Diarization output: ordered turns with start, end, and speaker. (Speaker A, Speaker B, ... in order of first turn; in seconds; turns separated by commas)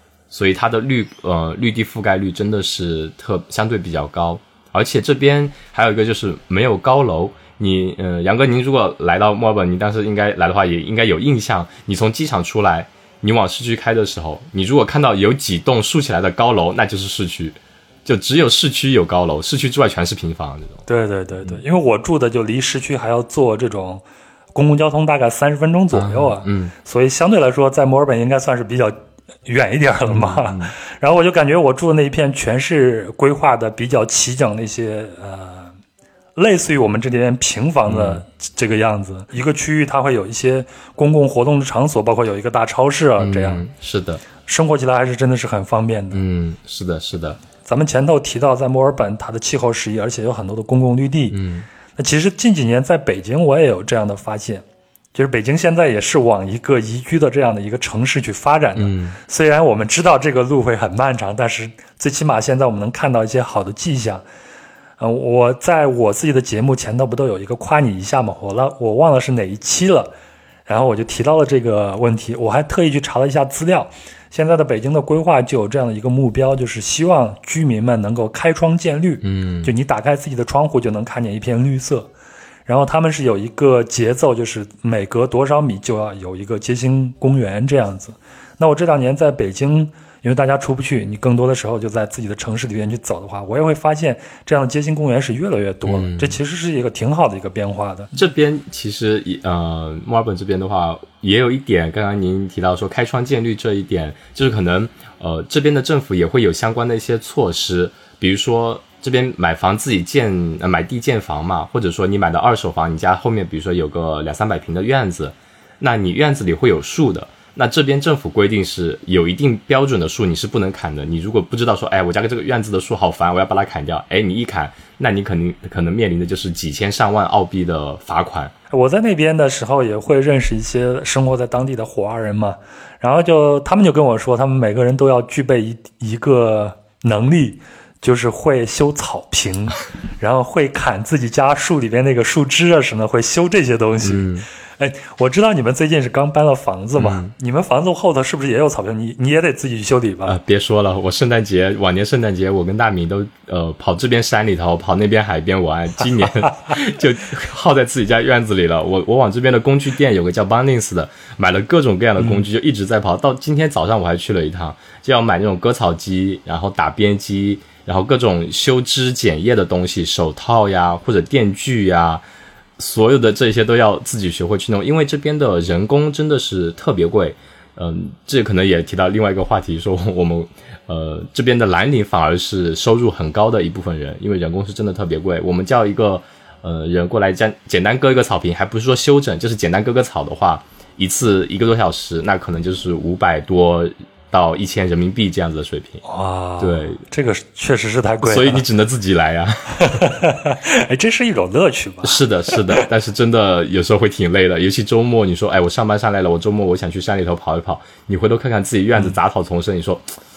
Speaker A: 0.3-20.8, Speaker B: 20.9-24.0, Speaker B: 24.5-28.9, Speaker A: 25.9-26.7, Speaker B: 29.4-35.7, Speaker A: 30.1-30.7, Speaker B: 36.4-43.6, Speaker A: 37.9-38.2, Speaker A: 43.2-44.2, Speaker B: 44.4-46.2, Speaker A: 46.1-47.4, Speaker B: 47.6-51.4, Speaker A: 51.3-51.7, Speaker B: 52.0-64.2, Speaker A: 58.8-59.2, Speaker B: 65.0-70.1, Speaker B: 70.7-82.1, Speaker A: 79.2-79.7, Speaker B: 82.7-98.1, Speaker A: 95.8-96.4, Speaker A: 98.1-128.5, Speaker B: 128.7-150.4, Speaker A: 144.0-144.4, Speaker A: 147.0-147.3, Speaker A: 150.3-172.2, Speaker A: 172.8-196.0, Speaker B: 196.0-198.6, Speaker A: 196.6-197.0, Speaker A: 198.2-200.1, Speaker B: 199.8-202.8, Speaker A: 202.0-210.1